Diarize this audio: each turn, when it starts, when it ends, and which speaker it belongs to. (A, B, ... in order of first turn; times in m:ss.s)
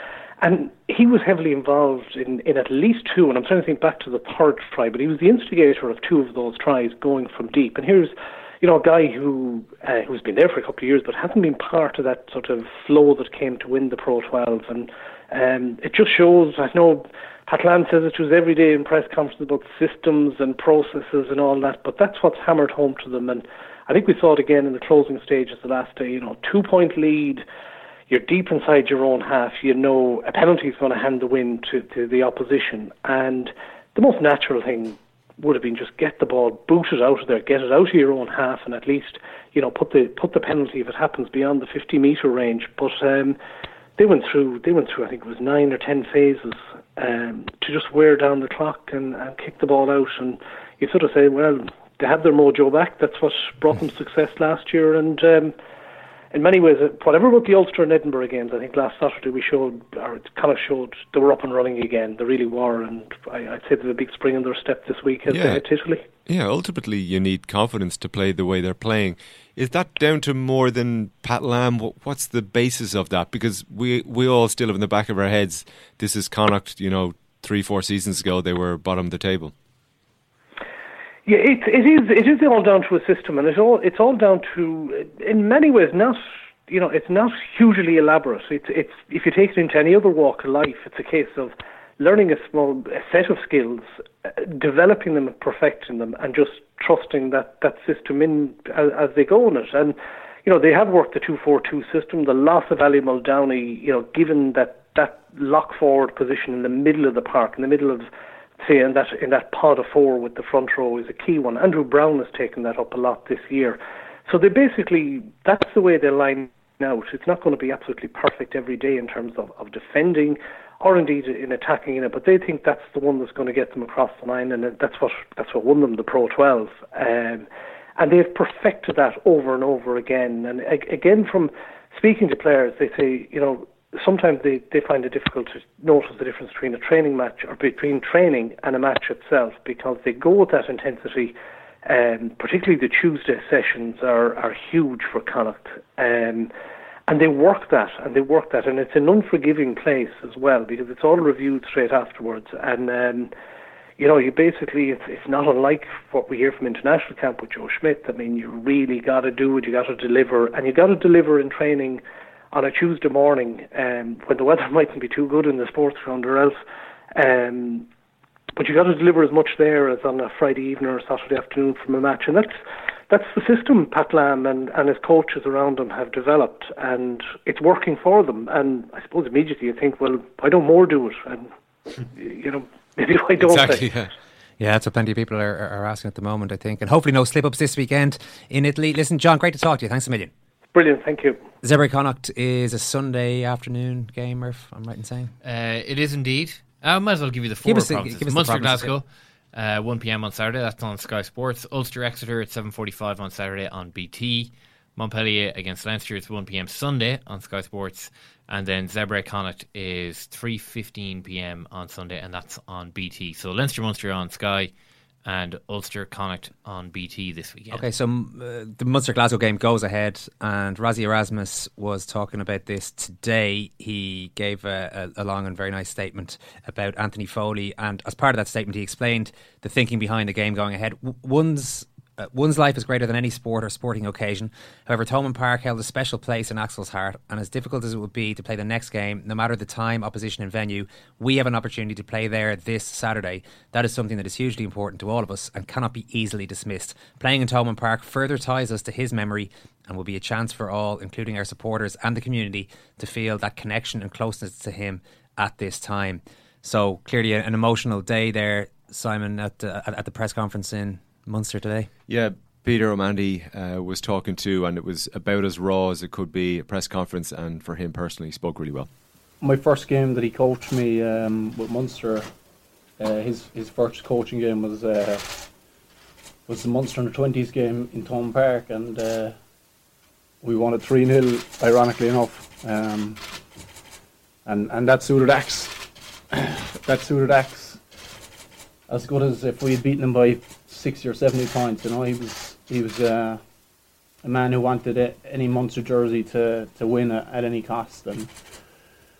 0:00.4-0:27.4 A
0:28.1-0:43.4 A
0:44.0-0:55.5 A
0:56.3-1:06.0 A
1:05.3-1:05.6 B
1:06.2-1:19.5 B
1:21.2-1:48.1 A
1:48.6-2:07.5 A
2:08.0-2:26.5 A
2:27.1-2:33.3 A
2:34.0-2:46.6 A
2:47.1-2:47.9 A
2:48.6-2:52.6 A
2:53.1-3:01.5 A
3:02.1-3:03.9 A
3:03.4-3:04.1 B
3:04.6-3:10.3 C
3:10.7-3:11.4 A
3:11.6-3:15.3 C
3:15.4-3:34.7 D
3:17.6-3:18.9 C
3:35.2-3:37.9 D
3:37.7-4:21.9 C
4:22.1-4:28.9 B
4:29.4-4:32.3 E
4:33.0-4:35.5 E
4:36.5-4:39.4 E
4:40.4-4:43.2 E
4:44.4-4:47.8 E
4:48.9-4:53.4 E
4:54.2-4:58.3 E